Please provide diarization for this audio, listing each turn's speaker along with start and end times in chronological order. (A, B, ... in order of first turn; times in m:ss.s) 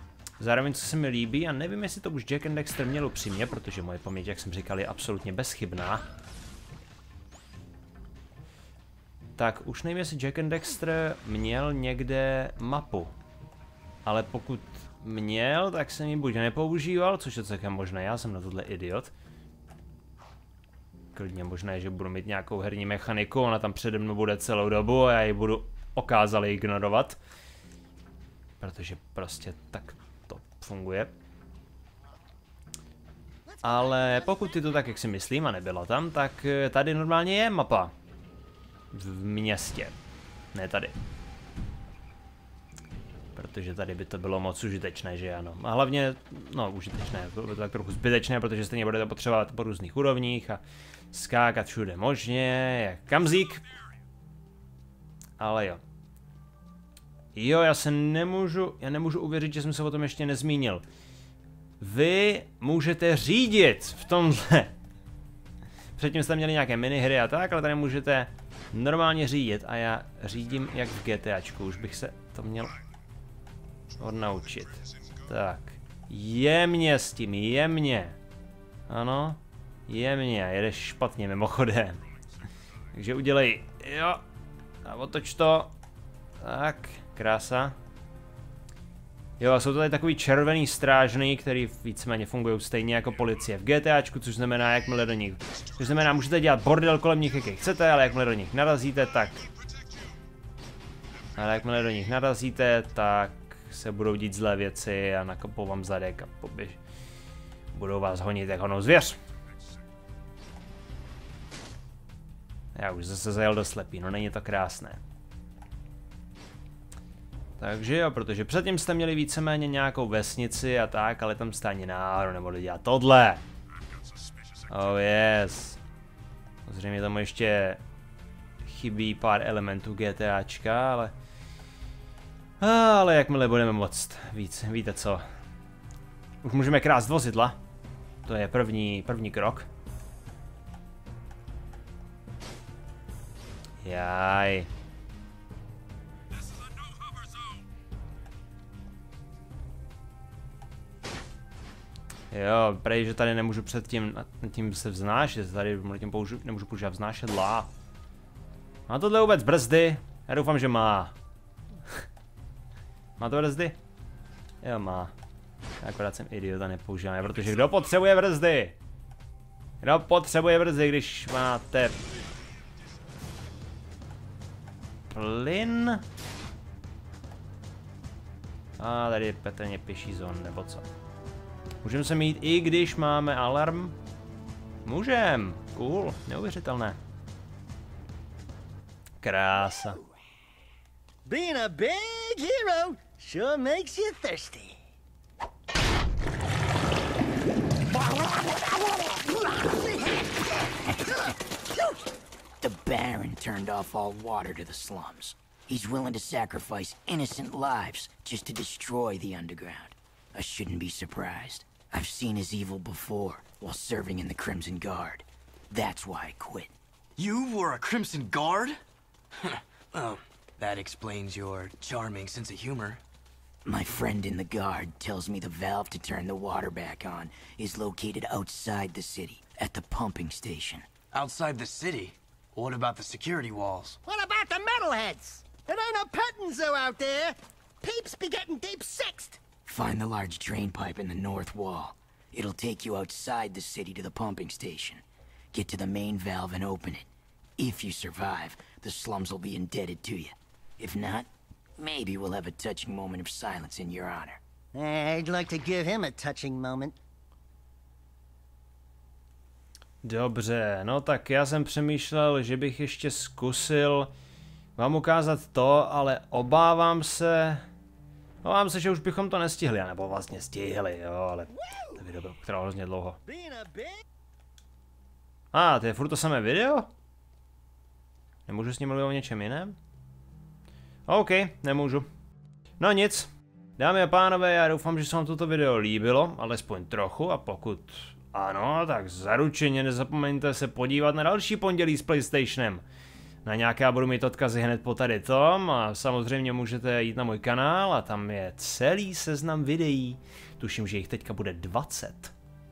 0:00.4-0:06.0 A
0:09.4-0:13.1 A
0:14.0-0:19.1 A
0:21.1-0:27.2 A
0:28.6-0:31.1 A
0:33.5-0:34.3 B
0:33.6-0:37.9 A
0:38.9-0:40.0 A
0:40.5-0:40.9 A
0:43.3-0:50.6 A
0:51.1-0:53.6 A
0:55.4-0:55.8 A
0:57.3-1:00.8 A
1:01.8-1:04.7 A
1:06.0-1:12.8 A
1:14.0-1:18.2 A
1:18.9-1:22.0 A
1:22.9-1:24.2 A
1:24.8-1:25.7 A
1:26.4-1:27.7 A
1:29.4-1:39.4 A
1:41.4-1:46.8 A
1:47.7-1:49.2 A
1:52.7-1:55.0 A
1:57.6-2:03.4 A
2:04.7-2:05.8 A
2:06.6-2:07.8 A
2:08.6-2:11.1 A
2:12.6-2:15.2 A
2:16.4-2:17.6 A
2:18.2-2:19.7 A
2:23.8-2:24.7 A
2:32.3-2:37.7 A
2:38.9-2:41.1 A
2:43.2-2:43.8 A
2:44.6-2:45.1 A
2:45.8-2:48.8 A
2:49.8-2:52.0 A
2:55.1-2:56.0 A
2:58.8-3:00.9 A
3:01.8-3:04.0 A
3:04.8-3:07.0 A
3:09.2-3:10.0 A
3:11.2-3:14.8 B
3:18.0-3:20.2 B
3:22.6-3:36.7 C
3:37.2-3:38.8 D
3:39.4-3:43.0 D
3:43.6-3:50.9 C
3:51.1-3:54.0 D
3:54.0-3:59.4 B
3:59.6-4:05.0 C
4:05.5-4:07.0 C
4:07.6-4:14.4 C
4:14.7-4:17.0 B
4:20.0-4:24.1 A
4:24.8-4:27.6 A
4:28.4-4:33.2 A
4:33.3-4:34.0 B
4:35.5-4:36.9 A
4:38.5-4:39.8 A
4:41.1-4:42.0 A
4:42.8-4:52.8 A
4:53.4-5:02.3 A